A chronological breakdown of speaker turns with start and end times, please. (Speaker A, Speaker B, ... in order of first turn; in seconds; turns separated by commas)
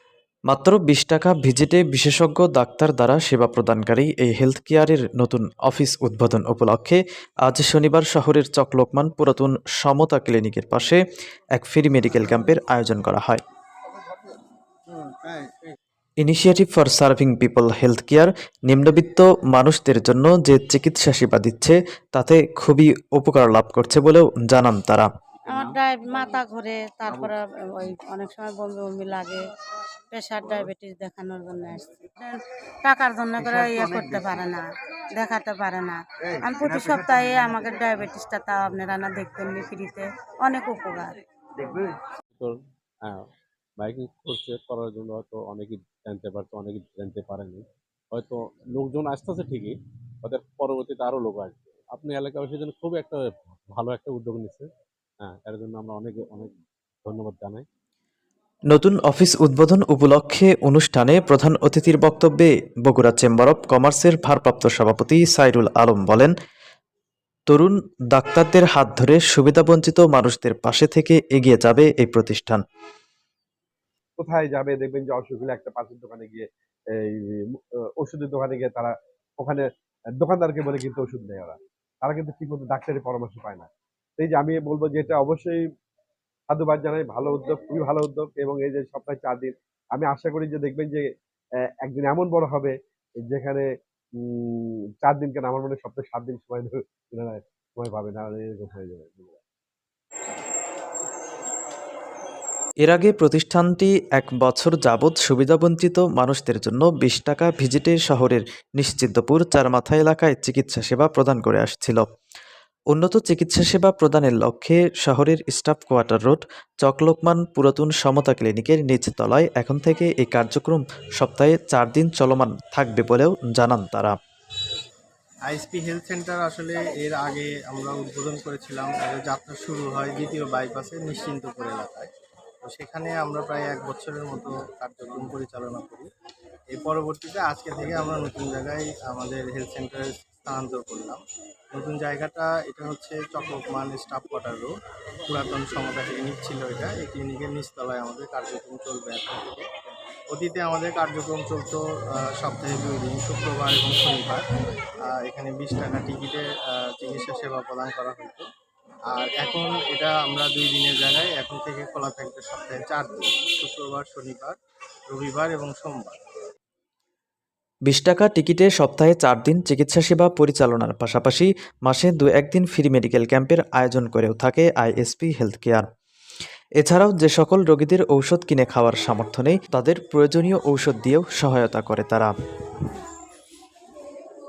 Speaker A: 0.5-11.0, Speaker A: 11.6-13.4, Speaker A: 16.2-25.1, Speaker B: 25.5-29.4, Speaker B: 30.1-41.2, Speaker C: 42.4-43.2, Speaker C: 43.8-54.7, Speaker C: 55.2-57.7, Speaker A: 58.7-66.3, Speaker A: 67.5-72.6, Speaker D: 74.2-79.6, Speaker D: 80.2-85.6, Speaker D: 86.5-91.1, Speaker D: 91.8-93.7, Speaker D: 94.2-99.4, Speaker A: 102.8-112.0, Speaker A: 112.9-124.1, Speaker E: 125.5-132.1, Speaker E: 132.7-136.1, Speaker E: 136.7-141.2, Speaker E: 141.7-144.7, Speaker E: 145.3-149.7, Speaker E: 150.3-154.5, Speaker E: 155.1-158.5, Speaker E: 159.1-164.6, Speaker E: 165.1-166.2, Speaker A: 167.9-175.8, Speaker A: 176.8-182.3